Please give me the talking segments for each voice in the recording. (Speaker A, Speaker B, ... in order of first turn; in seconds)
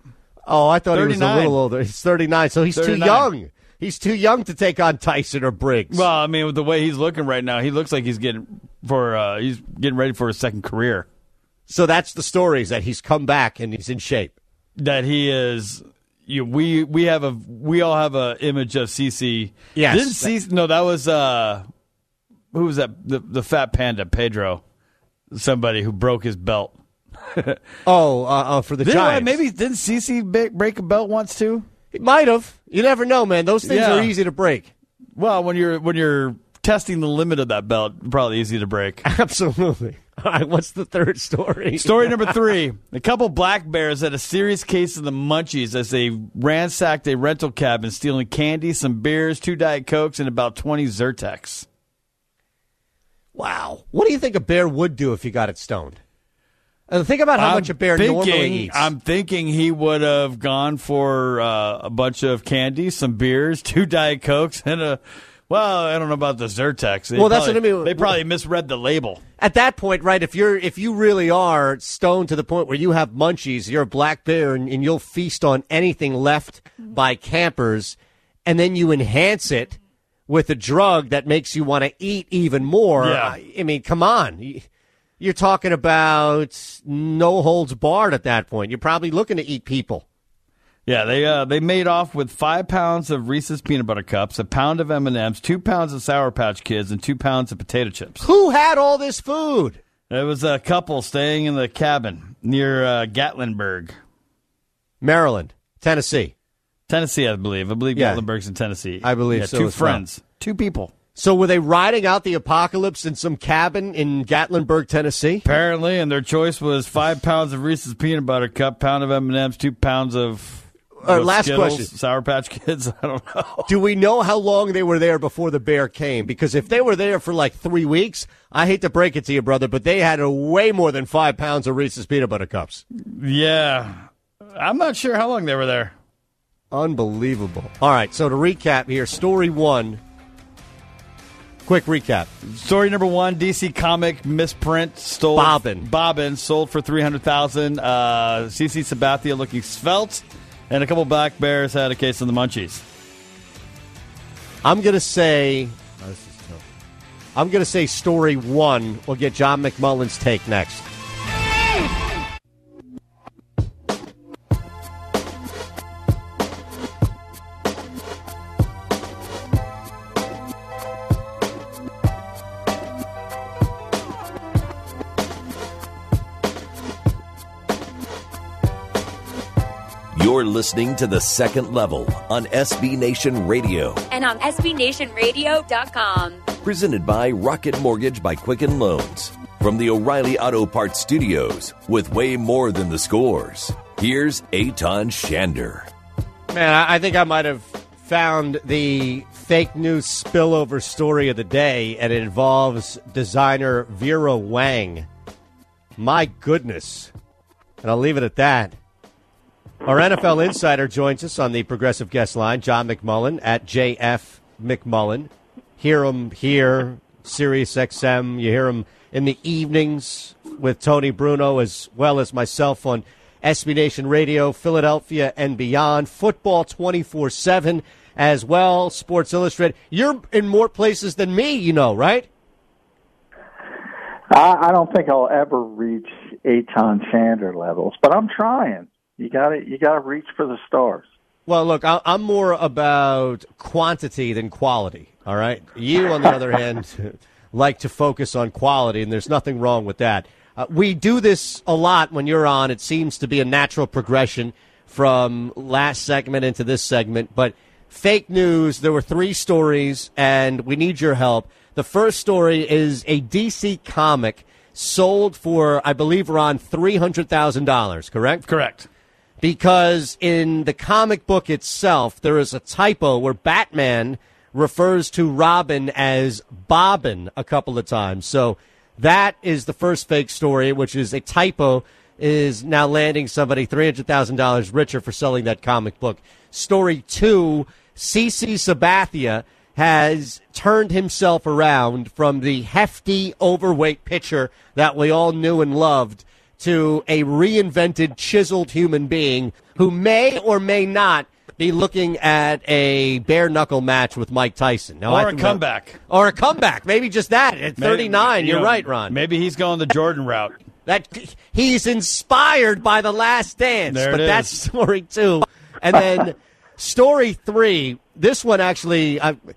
Speaker A: 0.5-6.1, 11.7-14.3, 19.7-20.3, 27.9-29.4, 31.9-34.7, 39.0-42.3, 53.4-56.0, 56.9-58.9, 67.1-68.2, 69.4-79.8, 80.3-84.6, 85.2-90.0, 98.2-99.8, 105.0-106.3, 107.9-108.2, 109.0-110.0, 111.1-115.5, 121.0-121.9, 123.7-132.8, 136.7-140.0, 141.6-142.3, 145.3-145.9, 154.6-156.6, 157.3-160.8, 196.5-205.1, 206.0-207.1, 207.8-208.7, 209.8-232.3, 241.5-268.4, 269.4-309.2, 310.9-319.4
Speaker B: 0.9-1.6, 2.7-3.3, 5.9-11.1, 14.8-21.7, 22.5-24.6, 25.3-27.6, 28.8-31.7, 33.6-34.1, 35.1-39.0, 41.8-51.7, 57.4-69.2, 83.0-83.4, 90.8-98.2, 100.1-104.0, 106.9-110.9, 115.4-123.7, 133.0-135.9, 142.4-152.8, 268.4-268.9, 305.1-306.0, 307.8-310.6, 313.9-314.6
Speaker C: 180.1-184.0, 186.6-195.9
Speaker D: 184.1-186.4
Speaker E: 234.3-241.0